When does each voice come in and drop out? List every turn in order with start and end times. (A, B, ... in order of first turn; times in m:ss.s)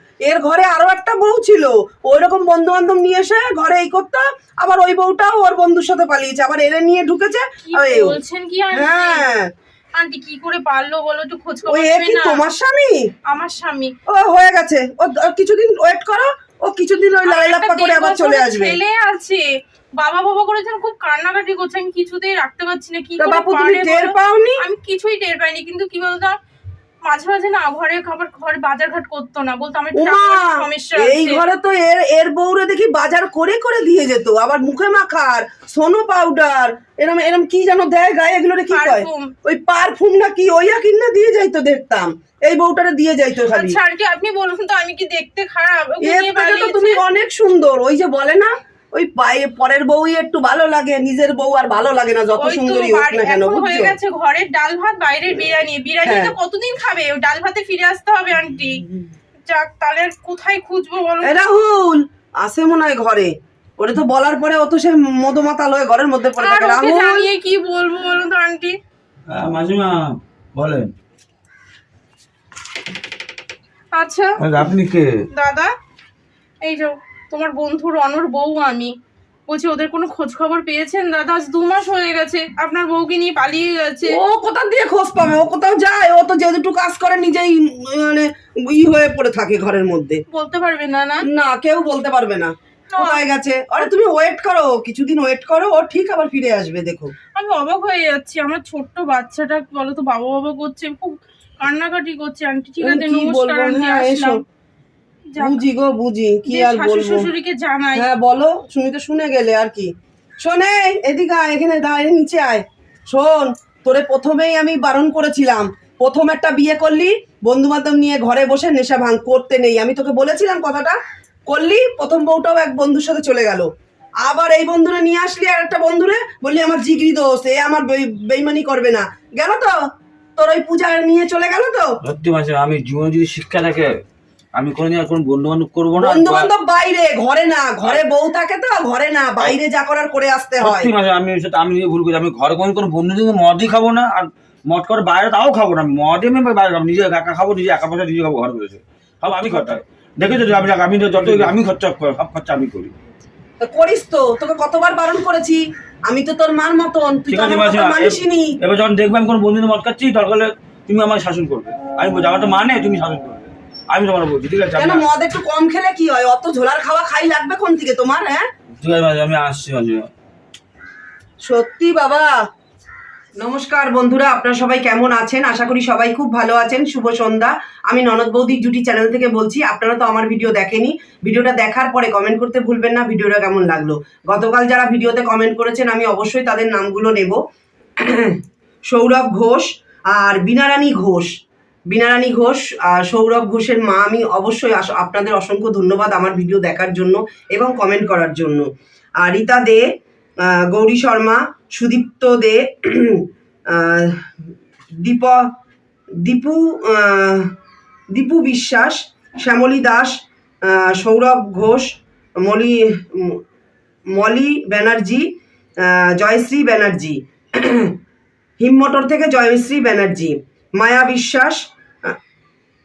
0:00.2-0:08.2 A
0:07.7-0:09.3 B
0:08.7-0:09.5 A
0:10.0-0:12.4 B
0:11.7-0:13.1 A
0:13.3-0:13.9 B
0:14.1-0:18.8 A
0:17.2-0:19.4 B
0:20.0-0:26.4 B
0:23.2-0:24.6 A
0:27.0-0:31.4 B
0:30.0-0:43.8 A
0:38.7-0:39.3 B
0:43.5-0:47.0 B
0:46.0-0:54.0 A
0:52.4-0:58.8 B
0:56.0-0:56.3 A
0:59.4-1:01.4 B
1:01.2-1:07.3 A
1:06.4-1:08.8 B
1:09.3-1:10.9 C
1:13.9-1:14.4 B
1:14.4-1:15.2 C
1:15.3-1:15.7 B
1:16.6-1:19.0 B
1:19.5-1:24.2 B
1:24.1-1:30.2 A
1:30.3-1:31.3 B
1:31.3-1:37.1 A
1:32.9-1:33.2 B
1:37.4-1:44.4 B
1:42.8-1:44.4 A
1:45.3-1:45.6 B
1:45.4-1:47.3 A
1:46.5-1:48.1 B
1:47.9-2:03.7 A
2:04.2-2:09.8 A
2:10.4-2:11.9 A
2:12.0-2:14.0 C
2:14.6-2:16.5 C
2:16.0-2:20.9 A
2:20.6-2:32.9 C
2:33.6-2:38.6 A
2:37.3-2:45.0 C
2:44.8-2:48.5 A
2:48.8-2:50.1 C
2:51.5-2:52.3 A
2:53.4-3:07.4 A
3:08.0-3:11.3 A
3:11.9-3:18.7 A
3:19.2-3:19.8 A
3:20.4-3:24.3 A
3:25.0-3:25.5 A
3:26.2-3:27.5 A
3:28.1-3:33.4 A
3:34.1-3:38.0 A
3:38.6-3:42.2 A